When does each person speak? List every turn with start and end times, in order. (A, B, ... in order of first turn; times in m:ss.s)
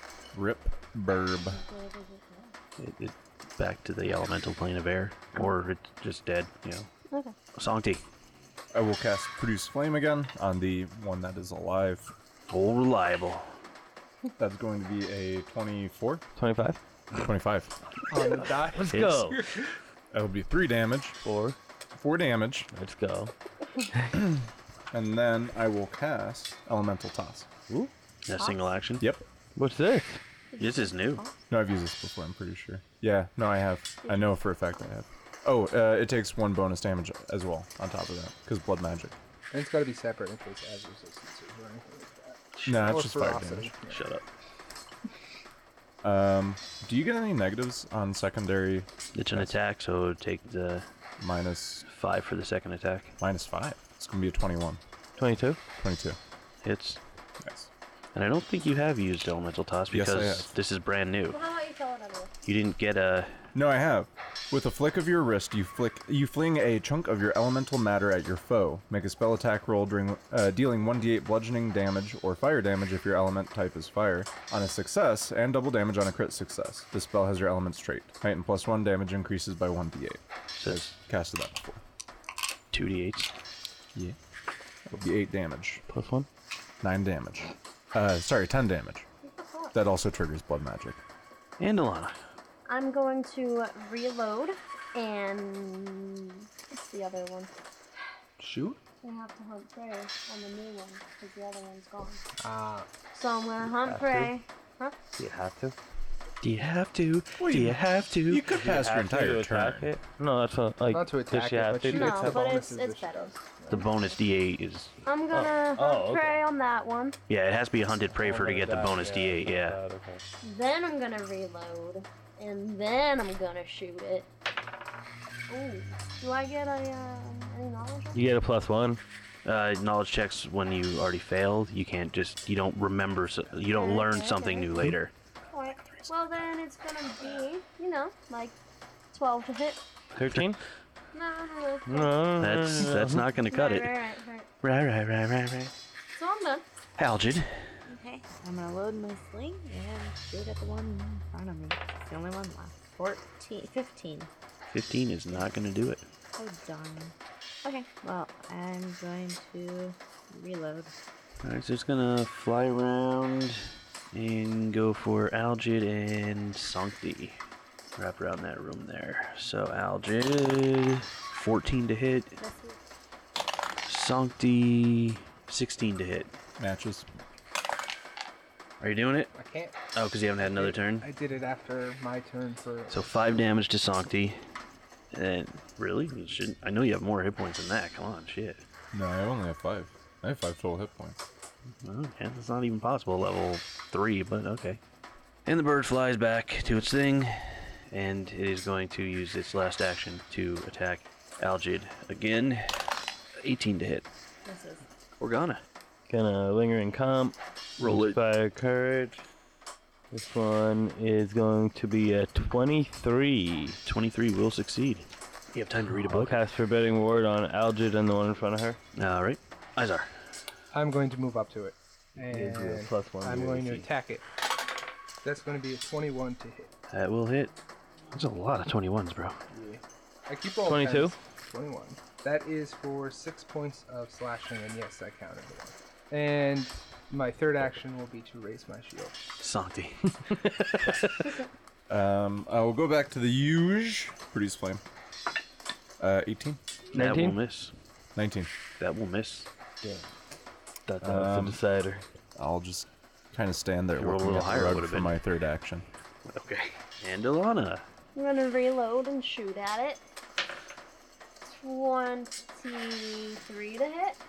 0:00.3-0:01.6 A
0:01.6-0:02.5 B
0:02.8-0:06.9 C
0:07.1-0:07.3 B
0:07.5-0:08.0 C
0:08.7-0:12.1 A
0:12.5-0:13.5 C
0:14.4-0:16.2 A
0:16.4-0:16.8 D
0:17.1-0:17.7 A
0:18.1-0:19.8 E
0:18.2-0:19.4 D
0:20.1-0:21.2 A
0:21.2-0:21.6 D
0:21.9-0:22.7 A
0:22.7-0:23.3 D
0:24.9-0:27.5 A
0:28.3-0:29.1 C
0:29.6-0:30.2 D
0:30.6-0:31.2 C
0:31.5-0:39.2 A
0:39.5-0:44.0 E
0:42.6-0:43.7 A
0:43.9-0:44.2 C
0:46.0-0:49.5 A
0:49.1-0:50.9 C
0:51.2-0:51.8 A
0:51.8-0:53.1 C
0:53.2-0:54.8 A
0:55.2-0:55.6 D
0:55.8-0:56.2 A
0:56.6-0:57.0 C
0:57.4-0:57.7 A
0:58.1-1:01.4 C
0:59.9-1:00.5 A
1:01.3-1:02.3 B
1:02.4-1:03.4 C
1:03.5-1:21.8 A
1:20.6-1:20.9 C
1:22.7-1:23.3 C
1:24.8-1:25.8 A
1:25.9-1:26.3 D
1:26.8-1:29.0 A
1:29.3-1:29.7 B
1:29.7-1:31.0 A
1:31.6-1:32.1 C
1:32.7-1:37.5 B
1:38.4-1:38.8 E
1:39.0-1:42.2 B
1:42.4-1:43.0 E
1:43.1-1:44.9 B
1:43.7-1:44.3 D
1:45.2-1:45.8 D
1:46.4-1:48.4 C
1:47.4-1:49.9 A
1:48.5-1:52.4 D
1:50.9-1:53.9 E
1:51.9-1:53.4 B
1:53.7-1:54.9 C
1:55.0-1:57.2 B
1:55.3-1:56.4 D
1:57.3-1:59.8 C
1:58.2-2:00.2 D
2:00.4-2:04.3 B
2:05.5-2:08.2 B
2:08.1-2:09.0 D
2:09.4-2:15.1 C
2:13.6-2:15.0 B
2:15.5-2:18.6 B
2:19.1-2:19.8 B
2:20.2-2:20.6 D
2:20.2-2:20.4 C
2:21.1-2:22.2 B
2:21.9-2:23.3 D
2:22.4-2:24.0 C
2:23.5-2:24.5 B
2:24.6-2:25.7 C
2:26.1-2:26.6 B
2:27.0-2:27.6 C
2:27.9-2:34.3 F
2:34.7-2:36.0 C
2:36.4-2:37.1 F
2:37.6-2:40.9 F
2:41.4-2:47.4 C
2:48.0-2:52.4 C
2:52.4-2:52.8 F
2:53.9-2:56.3 C
2:56.6-2:57.1 A
2:58.8-2:59.3 C
2:59.3-2:59.7 E
2:59.9-3:01.0 C
3:00.4-3:03.2 E
3:02.9-3:04.4 C
3:05.1-3:08.6 C
3:08.9-3:11.2 A
3:11.8-3:14.8 C
3:15.4-3:22.8 C
3:23.4-3:24.0 C
3:24.4-3:24.8 F
3:25.2-3:25.6 C
3:26.1-3:29.2 D
3:27.8-3:28.2 C
3:30.1-3:33.8 D
3:33.8-3:36.4 C
3:36.0-3:38.8 D
3:38.9-3:40.1 C
3:40.7-3:44.2 E
3:42.3-3:43.9 D
3:45.2-3:46.7 E
3:46.9-3:47.5 C
3:48.1-3:49.4 C
3:49.5-3:59.2 E
3:50.6-3:51.1 D
3:59.4-4:00.1 C
4:01.9-4:04.8 A
4:06.0-4:06.6 A
4:06.9-4:07.7 C
4:06.9-4:07.4 D
4:08.2-4:08.5 A
4:08.8-4:09.5 C
4:11.0-4:11.6 A
4:11.0-4:12.0 D
4:12.4-4:15.8 A
4:14.0-4:15.2 C
4:16.3-4:17.8 C
4:18.1-4:20.0 B
4:21.4-4:24.2 B